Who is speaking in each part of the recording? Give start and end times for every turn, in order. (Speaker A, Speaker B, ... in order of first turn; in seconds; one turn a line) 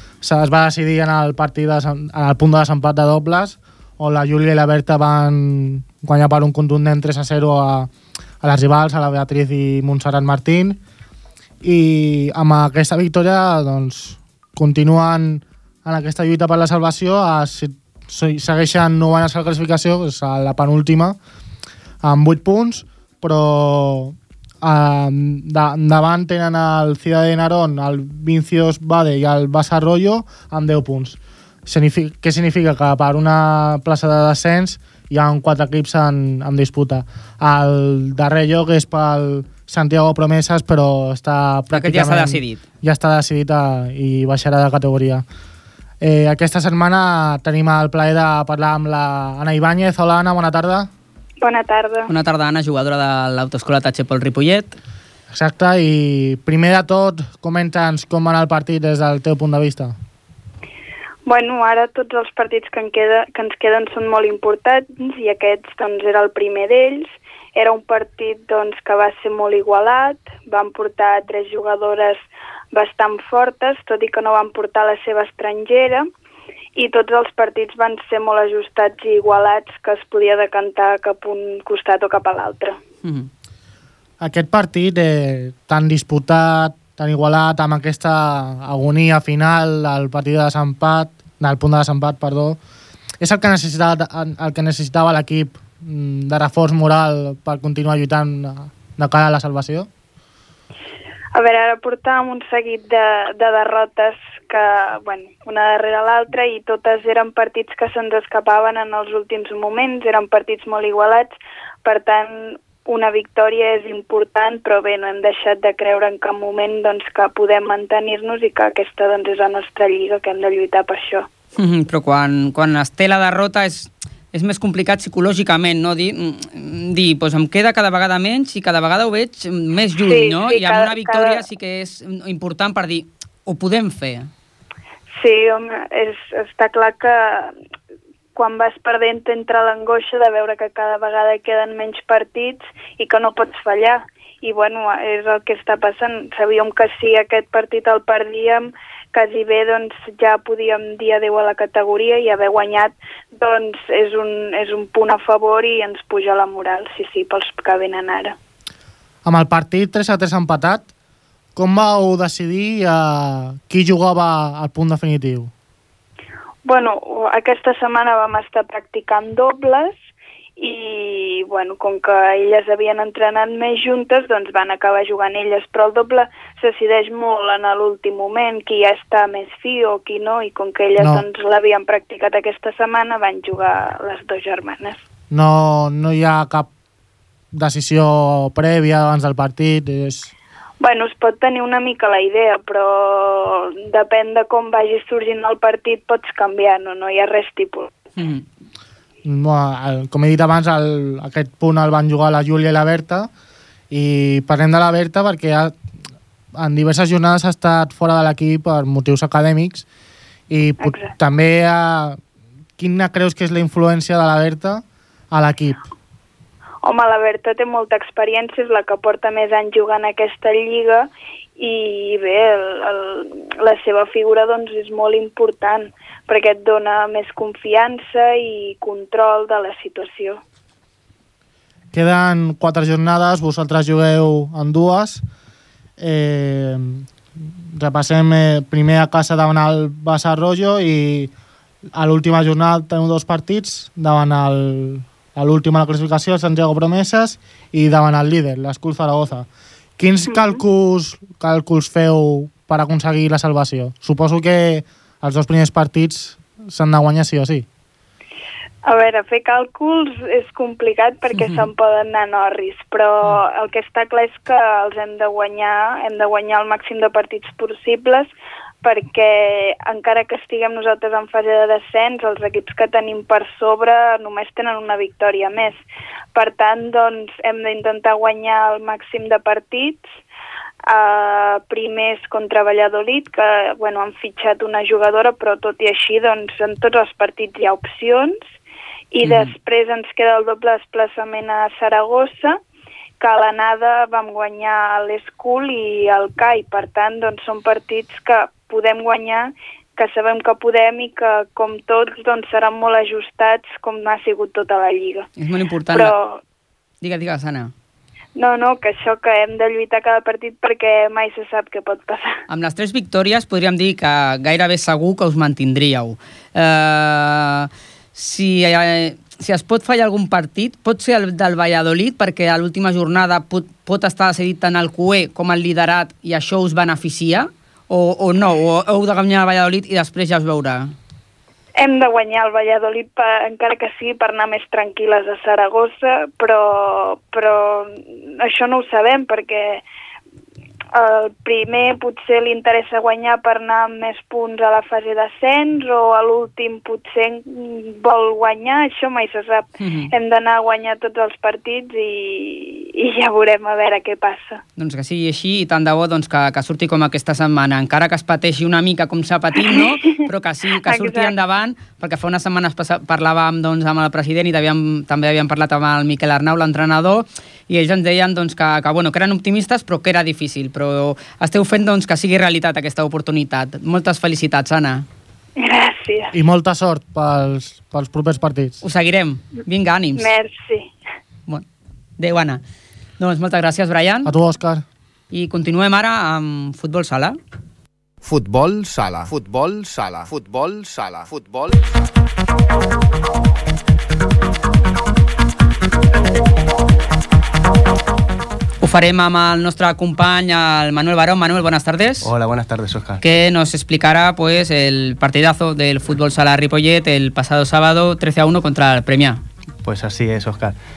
Speaker A: 0.2-7.9
Speaker A: 8.4-10.8
Speaker A: 11.6-21.2
Speaker A: 22.0-45.2
Speaker B: 41.7-42.6
Speaker A: 46.0-50.9
Speaker C: 51.4-52.1
Speaker B: 52.1-54.8
Speaker A: 55.3-60.0
Speaker C: 61.2-72.2
Speaker C: 72.7-76.1
Speaker C: 76.8-82.8
Speaker B: 83.0-83.3
Speaker A: 84.2-92.6
Speaker A: 93.2-99.9
Speaker C: 101.3-111.3
Speaker C: 111.8-121.3
Speaker B: 121.6-134.3
Speaker C: 130.1-131.4
Speaker C: 135.2-137.5
Speaker C: 138.4-158.3
Speaker A: 159.2-160.9
Speaker A: 161.6-165.5
Speaker C: 166.7-169.9
Speaker C: 170.6-185.0
Speaker A: 181.0-181.2
Speaker A: 185.3-186.7
Speaker A: 187.5-190.3
Speaker C: 190.8-197.9
Speaker B: 198.2-198.4
Speaker A: 199.2-203.3
Speaker A: 203.9-205.8
Speaker A: 206.6-209.8
Speaker A: 210.5-212.2
Speaker C: 210.8-211.2
Speaker A: 212.8-215.8
Speaker C: 216.8-230.4
Speaker A: 231.9-235.2
Speaker A: 236.0-237.1
Speaker A: 237.8-241.3
Speaker A: 241.9-249.5
Speaker A: 250.0-257.7
Speaker C: 258.9-268.3
Speaker B: 261.4-261.6
Speaker C: 268.8-275.8
Speaker C: 276.4-280.1
Speaker C: 280.9-288.4
Speaker C: 289.1-292.6
Speaker B: 289.2-289.5
Speaker C: 293.2-305.3
Speaker B: 305.4-306.1
Speaker C: 305.9-306.4
Speaker B: 307.0-307.7
Speaker C: 308.4-312.4
Speaker B: 312.5-330.9
Speaker C: 331.8-339.8
Speaker C: 340.9-354.6
Speaker B: 349.8-350.1
Speaker B: 354.8-375.1
Speaker C: 360.9-361.3
Speaker C: 375.6-376.3
Speaker A: 376.3-378.8
Speaker B: 378.8-380.3
Speaker C: 380.2-380.9
Speaker B: 382.2-382.6
Speaker B: 383.2-384.3
Speaker A: 384.3-384.8
Speaker B: 385.3-387.4
Speaker D: 388.2-391.8
Speaker B: 398.8-402.3
Speaker E: 402.2-403.2
Speaker B: 403.2-409.4
Speaker E: 409.9-410.8